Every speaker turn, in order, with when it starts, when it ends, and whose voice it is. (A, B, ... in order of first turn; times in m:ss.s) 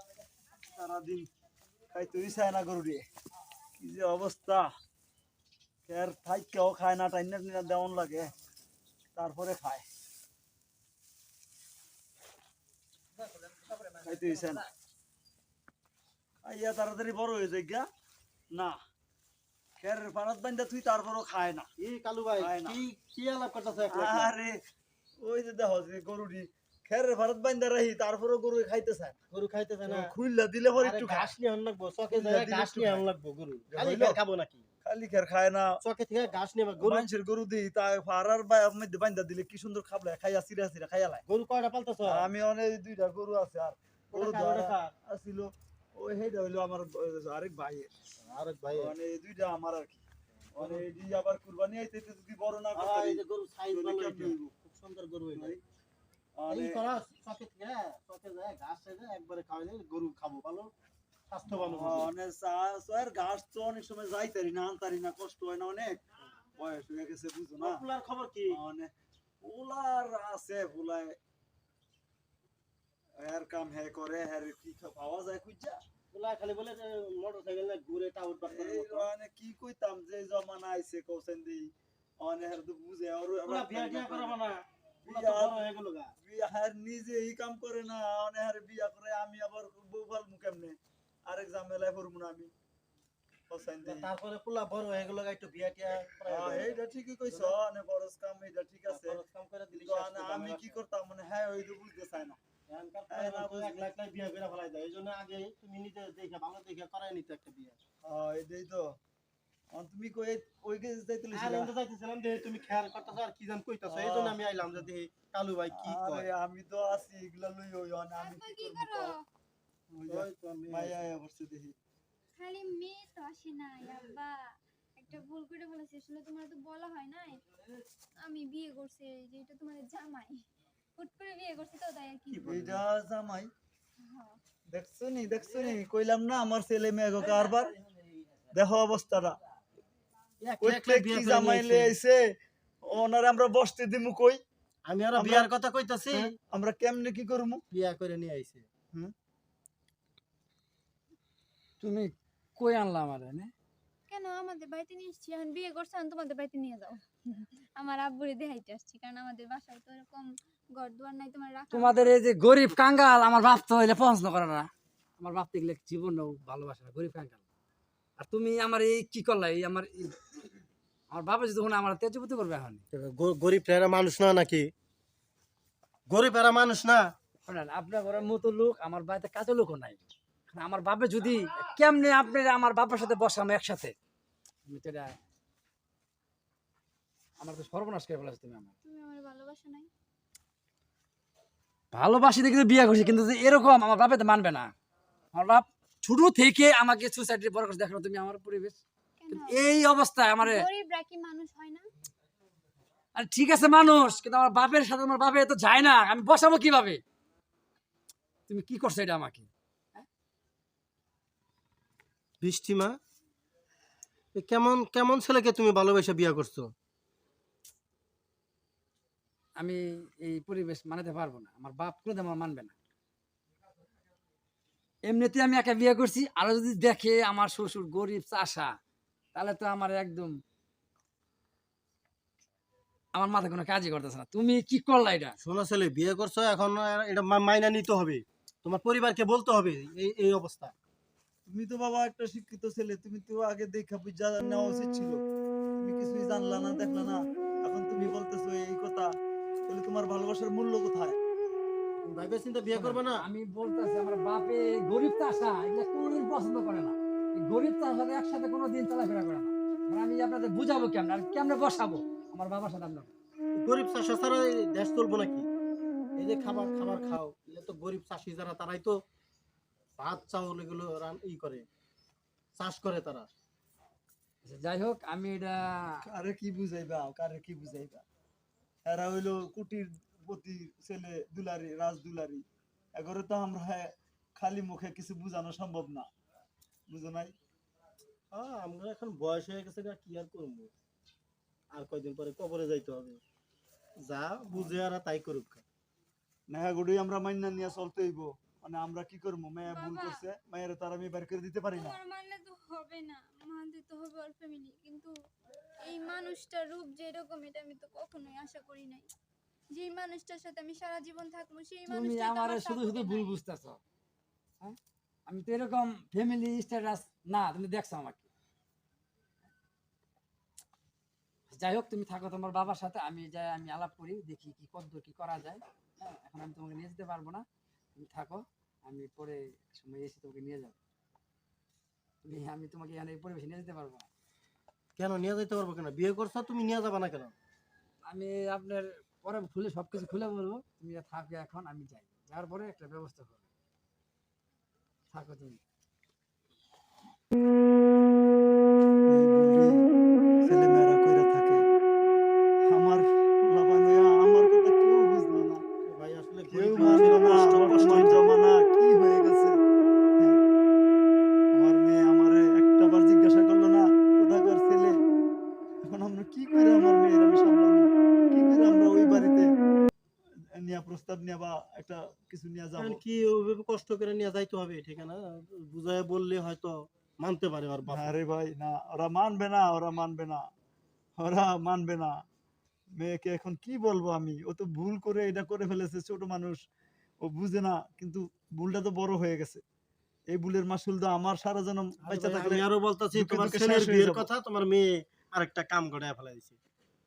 0:00.7-0:01.3 A
0:01.9-0:03.0 A
0:03.8-0:04.7 A
0:05.9-0:08.3 A
0:09.1-0:09.8 A
0:14.0-0:14.7 A
0:16.4-0:17.9 A
0:18.5-0:18.8 A
0:19.8-0:21.7 A
0:21.8-0:24.3 B
0:22.4-0:22.8 A
0:23.9-0:24.5 A
0:25.2-0:29.2 A
0:29.3-0:30.1 B
0:29.9-0:31.3 A
0:30.7-0:34.6 B
0:32.1-0:33.0 A
0:33.7-0:34.2 A
0:34.8-0:35.8 A
0:35.8-0:37.0 B
0:36.8-0:41.2 A
0:41.3-0:42.3 B
0:42.0-0:47.9 A
0:44.1-0:44.9 B
0:48.2-0:48.9 B
0:48.7-0:50.0 A
0:50.5-0:54.5 A
0:50.6-0:50.8 B
0:52.7-0:55.6 B
0:55.3-0:55.6 A
0:56.4-0:56.8 A
0:56.5-1:00.7 B
1:01.3-1:02.1 B
1:01.6-1:07.8 A
1:07.6-1:08.6 B
1:08.5-1:08.9 A
1:09.4-1:11.2 A
1:13.2-1:15.8 A
1:16.1-1:19.1 B
1:18.5-1:21.7 A
1:22.2-1:24.4 A
1:23.4-1:26.1 B
1:25.0-1:25.7 A
1:26.2-1:30.8 A
1:31.3-1:32.5 A
1:33.5-1:34.1 A
1:33.8-1:36.8 B
1:36.3-1:39.2 A
1:38.9-1:40.8 B
1:39.8-1:42.4 A
1:42.7-1:47.8 B
1:43.1-1:43.9 A
1:48.0-1:49.0 A
1:49.7-1:51.7 A
1:51.3-1:56.3 B
1:53.9-1:54.8 A
1:55.7-1:59.1 A
1:58.2-1:59.2 C
1:59.9-2:01.7 A
2:00.1-2:01.0 B
2:02.3-2:07.4 C
2:08.2-2:10.4 C
2:11.0-2:12.5 C
2:12.3-2:12.8 B
2:12.4-2:13.5 A
2:14.0-2:14.4 C
2:14.7-2:17.8 A
2:18.5-2:19.3 A
2:20.4-2:21.9 B
2:20.6-2:22.2 A
2:22.8-2:24.4 A
2:24.8-2:26.3 B
2:25.1-2:25.5 A
2:26.1-2:27.6 A
2:27.7-2:28.7 B
2:31.8-2:33.5 D
2:34.1-2:42.2 C
2:41.7-2:47.4 D
2:48.2-2:50.2 D
2:51.1-2:52.8 D
2:52.9-2:54.7 B
2:56.1-2:57.0 B
2:57.4-3:03.9 D
3:04.6-3:05.2 D
3:07.4-3:08.7 D
3:08.8-3:09.9 C
3:11.9-3:14.7 D
3:15.3-3:18.8 D
3:19.2-3:19.6 C
3:19.3-3:20.6 D
3:20.4-3:21.9 C
3:23.1-3:27.0 D
3:28.5-3:30.0 D
3:32.4-3:33.0 B
3:34.3-3:36.7 B
3:39.6-3:42.7 D
3:45.0-3:48.7 D
3:49.3-3:50.4 D
3:53.1-3:55.4 D
3:55.4-4:00.7 B
4:01.4-4:05.2 A
4:05.8-4:09.1 A
4:09.6-4:11.2 A
4:12.0-4:13.2 B
4:12.7-4:23.1 D
4:23.6-4:25.5 B
4:26.2-4:29.0 B
4:30.0-4:31.6 B
4:32.6-4:33.3 B
4:34.4-4:36.0 D
4:36.0-4:38.0 A
4:38.8-4:42.4 A
4:42.9-4:46.1 A
4:46.9-4:47.3 A
4:48.3-4:50.7 B
4:51.7-4:53.2 B
4:54.0-4:55.6 B
4:56.5-5:02.0 A
4:59.6-5:00.2 C
5:01.7-5:05.1 C
5:05.8-5:09.1 C
5:09.7-5:13.4 C
5:11.9-5:13.8 D
5:14.6-5:18.2 D
5:21.5-5:27.4 D
5:27.9-5:30.8 D
5:32.2-5:34.1 D
5:35.0-5:37.3 B
5:38.0-5:43.4 D
5:45.1-5:45.6 D
5:49.1-5:49.8 A
5:50.4-5:51.6 A
5:52.7-5:55.6 A
5:55.8-5:58.3 B
5:56.5-5:59.6 A
6:01.5-6:05.0 A
6:05.8-6:09.5 A
6:10.5-6:13.0 A
6:12.8-6:18.2 B
6:17.9-6:20.4 A
6:21.2-6:22.1 A
6:23.0-6:26.6 A
6:27.2-6:29.6 A
6:30.3-6:34.2 A
6:32.0-6:36.6 B